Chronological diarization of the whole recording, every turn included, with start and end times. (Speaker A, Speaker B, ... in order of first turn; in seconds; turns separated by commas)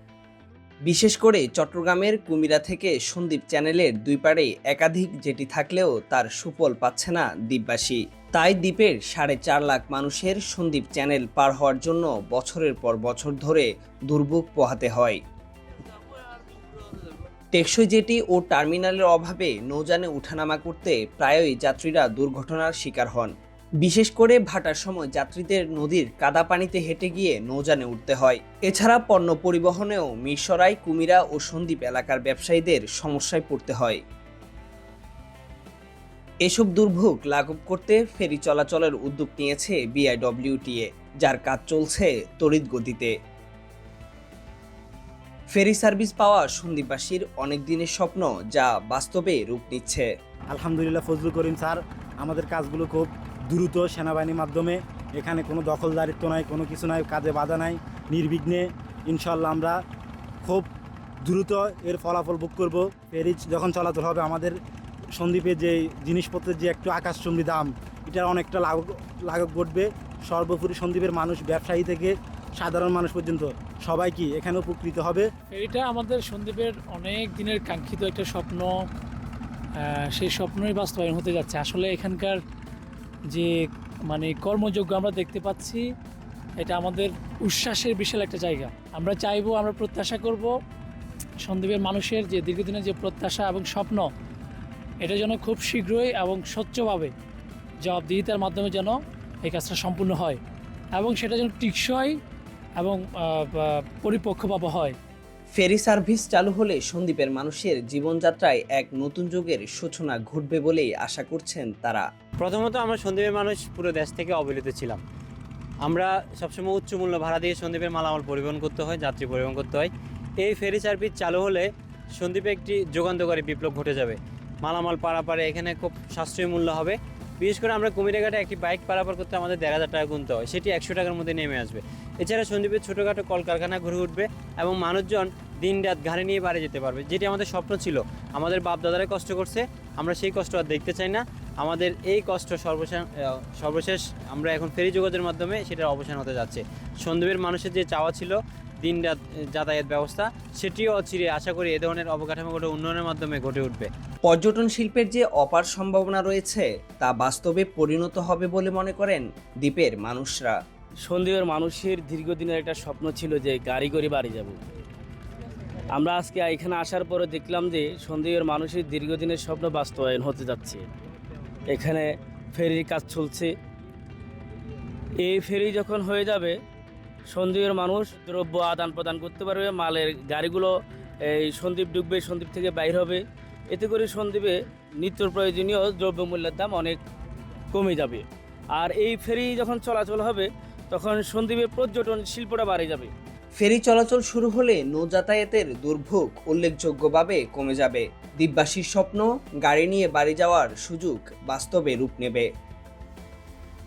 Speaker A: 0.8-15.2, Speaker A: 17.5-34.0, Speaker A: 36.4-43.1, Speaker A: 45.5-50.1, Speaker B: 50.5-59.8, Speaker B: 61.2-64.6, Speaker B: 65.2-75.3, Speaker C: 75.5-78.7, Speaker C: 79.8-82.4, Speaker C: 83.3-85.8, Speaker C: 86.6-90.5, Speaker C: 91.4-94.1, Speaker C: 95.0-97.1, Speaker C: 97.8-100.4, Speaker C: 100.9-102.1, Speaker C: 102.8-105.0, Speaker A: 105.5-112.1, Speaker D: 112.4-115.0, Speaker D: 115.8-119.9, Speaker D: 120.4-143.0, Speaker D: 143.6-153.9, Speaker A: 154.2-160.6, Speaker E: 161.0-164.6, Speaker E: 165.9-170.8, Speaker E: 171.7-173.5, Speaker E: 175.2-176.6, Speaker E: 177.3-187.0, Speaker E: 187.7-193.1, Speaker A: 193.6-202.5